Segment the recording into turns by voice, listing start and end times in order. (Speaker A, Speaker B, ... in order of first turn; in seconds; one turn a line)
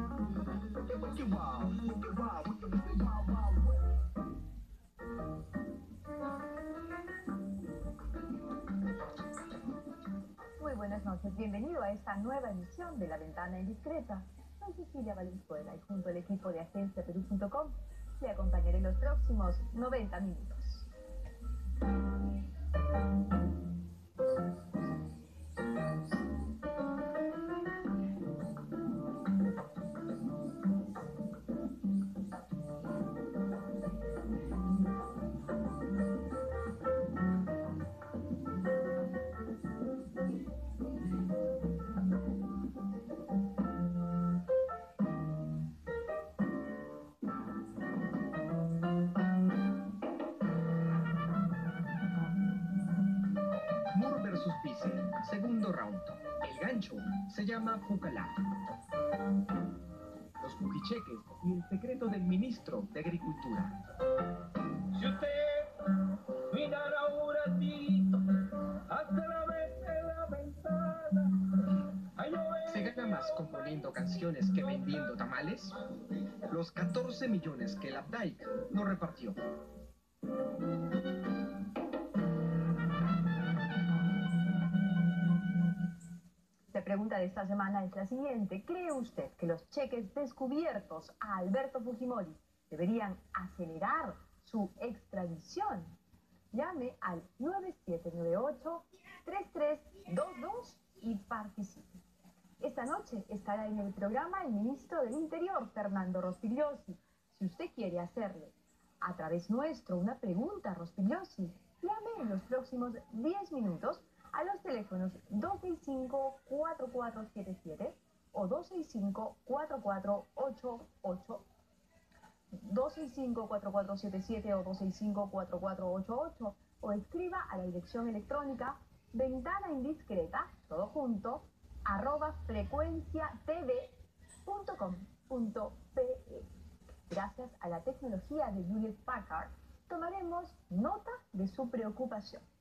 Speaker A: 1.0-3.7
Speaker B: 10.6-20.9
Speaker A: 53.9-58.4
Speaker A: 60.4-63.7
Speaker C: 64.9-73.8
Speaker A: 72.6-79.4
Speaker B: 86.7-95.9
Speaker B: 96.5-102.0
Speaker B: 102.6-121.4
Speaker B: 122.5-136.5
Speaker B: 137.1-142.4